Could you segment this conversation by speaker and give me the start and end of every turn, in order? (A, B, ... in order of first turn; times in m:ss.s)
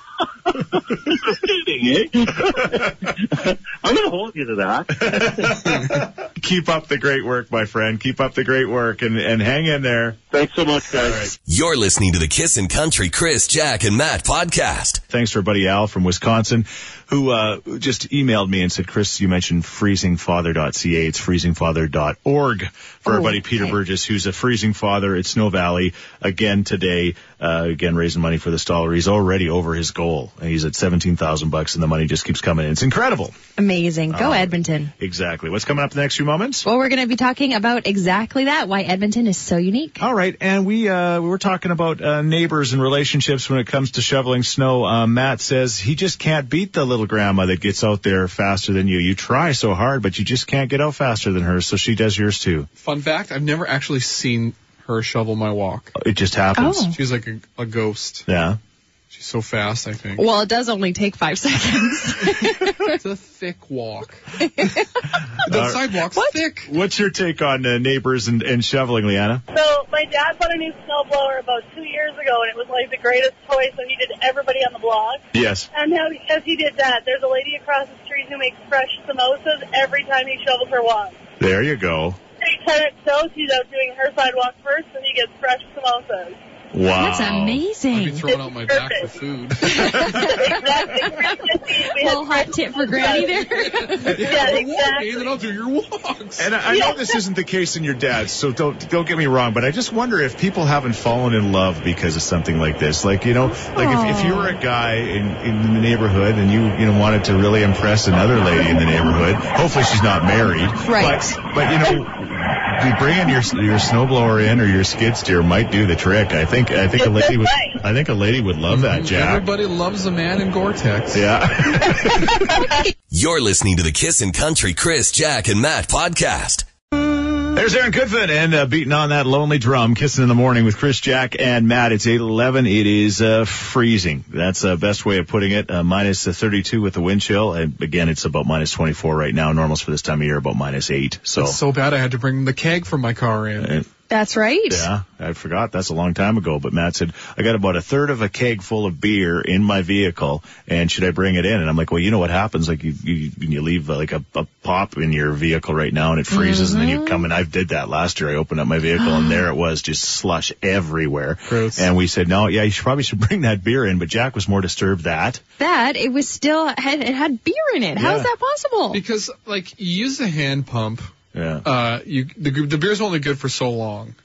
0:00.5-0:06.0 A
0:05.0-0:10.2 B
0:10.3-0:11.3 A
0:10.9-0:11.3 B
0:11.5-0:15.0 C
0:15.1-0:33.4 B
0:23.1-0:23.7 D
0:33.6-0:34.9 D
0:34.1-0:36.6 B
0:36.6-0:40.0 D
0:40.0-0:52.7 B
0:52.8-0:56.0 E
0:56.0-0:56.9 B
0:56.6-0:57.0 D
0:56.9-0:58.3 E
0:58.3-0:58.6 B
0:59.1-1:00.3 E
1:00.2-1:03.0 D
1:02.9-1:04.2 E
1:04.4-1:04.9 D
1:05.4-1:06.7 E
1:05.5-1:05.8 B
1:06.7-1:09.4 B
1:09.5-1:21.2 F
1:15.3-1:15.7 B
1:21.4-1:22.2 B
1:22.4-1:26.4 F
1:26.7-1:27.6 B
1:26.9-1:28.3 D
1:27.9-1:30.0 E
1:28.7-1:29.0 F
1:29.6-1:31.3 D
1:30.3-1:33.5 F
1:32.0-1:34.6 D
1:33.5-1:36.5 E
1:34.2-1:35.2 F
1:36.4-1:59.5 B
1:36.7-1:37.0 F
1:43.7-1:44.6 D
1:50.8-1:51.2 D
1:57.0-1:57.7 F
1:58.7-2:01.3 E
2:01.1-2:02.5 B
2:02.4-2:02.9 D
2:03.1-2:06.7 C
2:07.5-2:21.6 B
2:21.4-2:23.8 E
2:23.6-2:23.9 B
2:24.1-2:24.9 D
2:24.7-2:45.4 B
2:36.3-2:37.3 D
2:39.0-2:39.4 D
2:41.5-2:41.9 E
2:45.6-2:49.0 D
2:48.0-2:48.2 E
2:48.9-2:51.1 E
2:51.3-2:51.6 B
2:51.6-2:54.2 E